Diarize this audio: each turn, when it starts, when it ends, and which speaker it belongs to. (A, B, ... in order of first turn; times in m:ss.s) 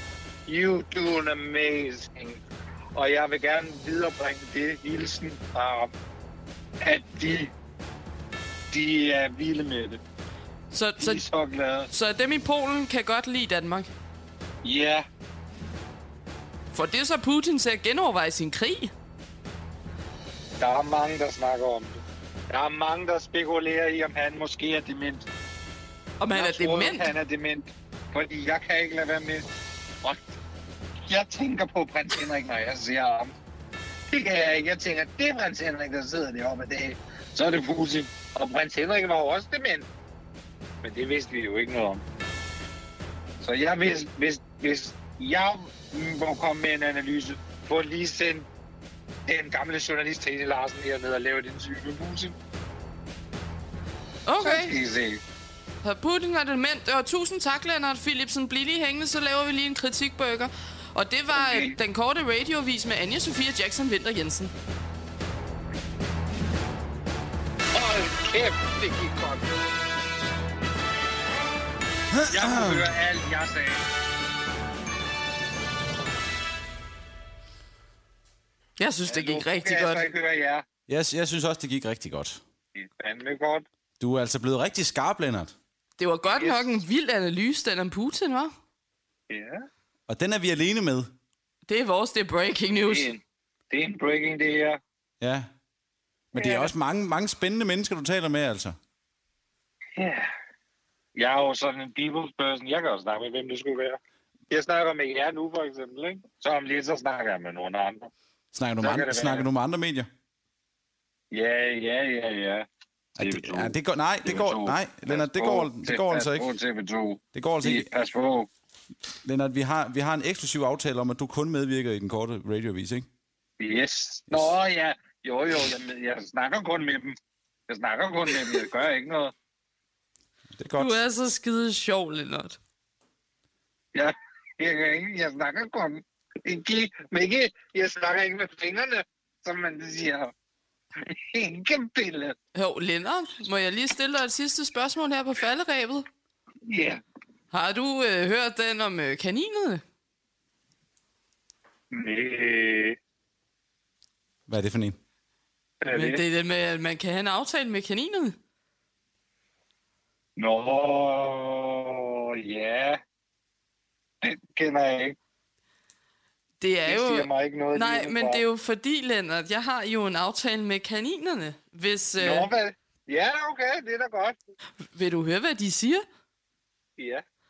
0:00.5-0:02.4 A
0:03.0-0:05.9 A
0:06.8-0:07.5 A
0:08.7-0:10.0 A
0:10.7-0:11.2 B
0:11.0-0:11.9 A
0:11.9-0:13.9 B
0:14.6-0:15.0 A
0:16.7-0:18.9 B
0:20.6-0:25.3 A
0:26.2-0:27.1 B
0:26.3-0:29.5 A
0:30.0-0:30.3 A
0:31.1-0:33.3 A
0:34.1-0:39.9 A
0:40.8-0:42.0 A
0:43.4-0:48.5 A
0:49.3-0:52.4 A
0:54.3-0:54.7 B
0:54.4-0:55.2 A
0:55.8-1:04.5 B
1:01.3-1:01.8 A
1:07.7-1:09.5 A
1:12.1-1:12.9 C
1:12.3-1:13.8 A
1:18.8-1:20.1 B
1:19.1-1:20.6 A
1:20.9-1:22.4 C
1:22.8-1:23.7 A
1:24.0-1:25.6 C
1:26.0-1:28.5 B
1:26.3-1:26.8 A
1:29.3-1:29.6 A
1:30.1-1:31.1 C
1:31.7-1:33.1 B
1:32.9-1:34.8 A
1:35.2-1:35.5 C
1:36.3-1:38.8 C
1:36.4-1:36.7 A
1:40.0-1:40.3 A
1:41.2-1:44.0 A
1:44.5-1:48.1 A
1:48.5-1:50.1 C
1:48.8-1:49.5 A
1:51.3-1:58.5 A
1:53.2-1:56.5 C
1:57.4-1:57.9 C
1:59.2-2:03.1 C
2:03.6-2:07.2 A
2:07.7-2:09.3 A
2:10.5-2:11.0 C
2:10.8-2:12.6 B
2:13.9-2:20.3 A
2:21.0-2:22.4 A
2:22.6-2:26.1 B
2:26.7-2:27.0 A
2:27.5-2:29.8 B
2:31.9-2:33.0 A
2:34.5-2:35.0 C
2:35.8-2:36.2 A
2:35.9-2:38.4 B
2:40.4-2:43.0 A
2:44.2-2:45.2 A
2:46.6-2:52.5 B
2:46.9-2:48.4 A
2:52.2-2:54.4 A
2:54.9-2:56.0 B
2:57.0-2:57.2 A